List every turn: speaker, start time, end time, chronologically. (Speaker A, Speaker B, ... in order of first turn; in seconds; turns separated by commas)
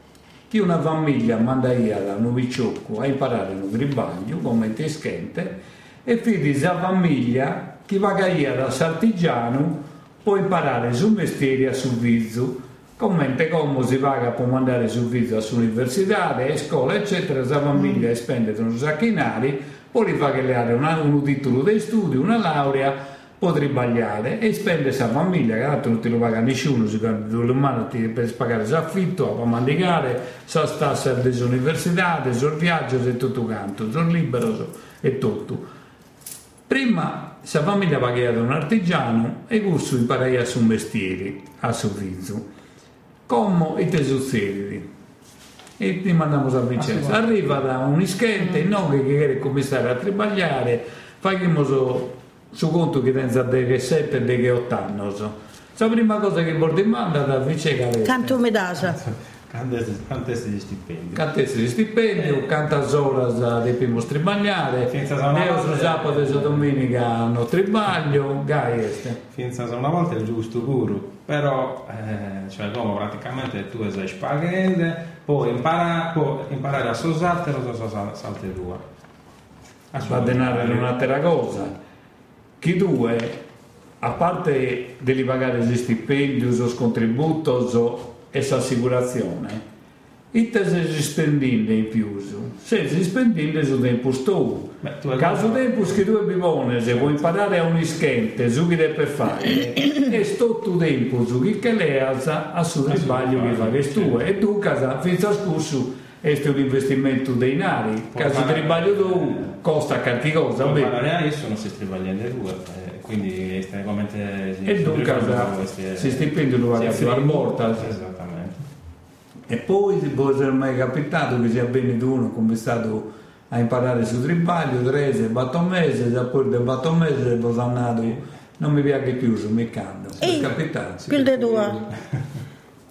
Speaker A: 0.5-35.7, Speaker A: 36.7-42.5, Speaker A: 43.3-44.9, Speaker A: 45.8-58.4, Speaker B: 46.8-47.2, Speaker C: 58.0-59.0, Speaker B: 58.8-61.2, Speaker A: 61.1-69.2, Speaker B: 64.9-66.7, Speaker B: 69.3-78.8, Speaker B: 79.9-80.9, Speaker A: 80.0-81.7, Speaker A: 82.6-83.4, Speaker A: 84.0-89.6, Speaker A: 90.3-110.9, Speaker B: 94.8-96.0, Speaker B: 102.9-104.2, Speaker B: 108.1-109.6, Speaker B: 110.6-118.6, Speaker A: 114.7-117.9, Speaker A: 119.5-131.2, Speaker C: 130.2-130.5, Speaker C: 131.1-131.8, Speaker B: 131.1-132.2